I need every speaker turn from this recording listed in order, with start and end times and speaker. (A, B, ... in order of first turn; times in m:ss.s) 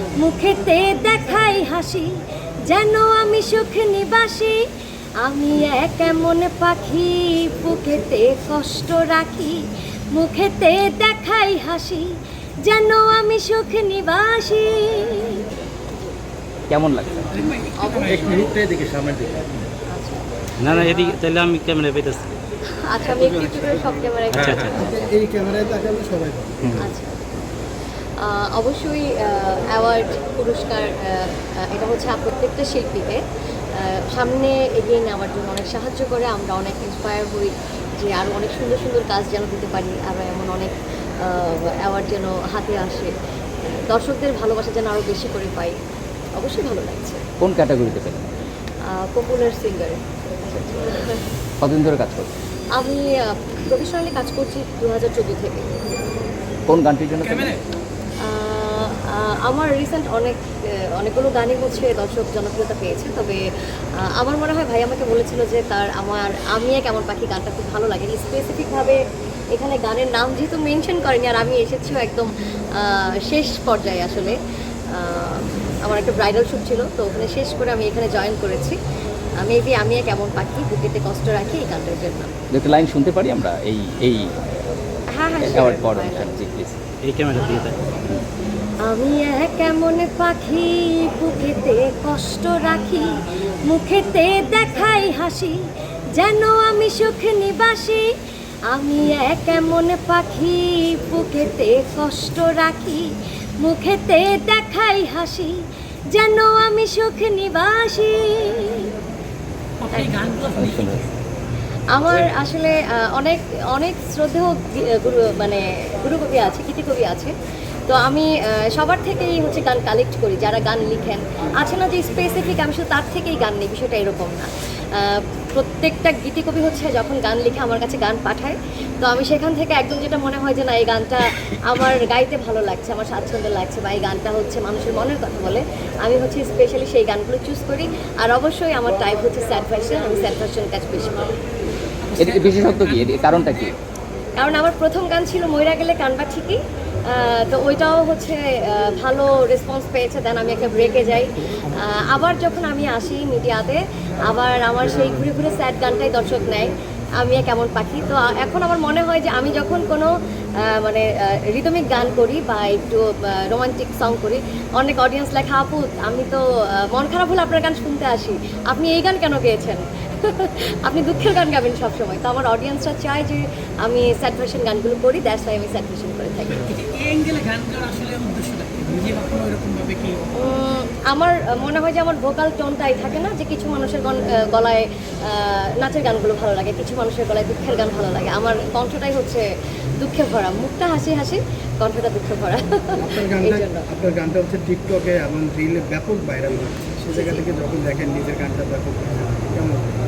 0:00.2-0:02.1 A
0:02.7-0:04.6 A
0:05.2-0:15.5 A
0:16.7-0:17.3 B
0:17.3-0:18.6 C
0:17.8-0:18.5 A
0:18.1-0:19.5 D
0:19.9-0:21.2 A
0:20.6-0:22.3 E
0:22.7-0:24.9 A
0:23.2-0:26.9 D
0:24.4-0:24.8 E
0:26.8-0:27.2 A
0:28.2-0:33.2 A
0:33.8-0:43.1 A
0:43.9-0:45.8 A
0:46.4-0:47.2 A
0:47.4-0:48.3 B
0:48.9-0:50.0 A
0:50.5-0:50.8 B
0:50.7-0:51.2 A
0:51.6-0:52.3 B
0:52.8-0:55.7 A
0:56.7-0:57.5 B
0:57.2-0:57.6 C
0:58.2-1:03.4 A
1:04.0-1:09.0 A
1:09.5-1:14.4 A
1:14.9-1:18.8 A
1:19.4-1:22.3 A
1:22.5-1:24.3 B
1:25.1-1:26.4 A
1:25.4-1:26.8 B
1:27.0-1:27.8 E
1:28.8-1:35.6 A
1:36.1-1:38.1 A
1:38.7-1:45.6 A
1:46.1-1:48.9 A
1:49.8-1:51.1 C
1:50.6-1:51.0 B
1:51.9-1:57.3 A
1:57.9-2:21.3 A
2:22.0-2:23.8 C
2:22.2-2:23.8 B
2:24.4-2:56.7 A
2:56.6-3:00.2 C
3:00.4-3:09.4 A
3:10.0-3:13.9 A
3:13.0-3:20.0 D
3:17.1-3:17.4 A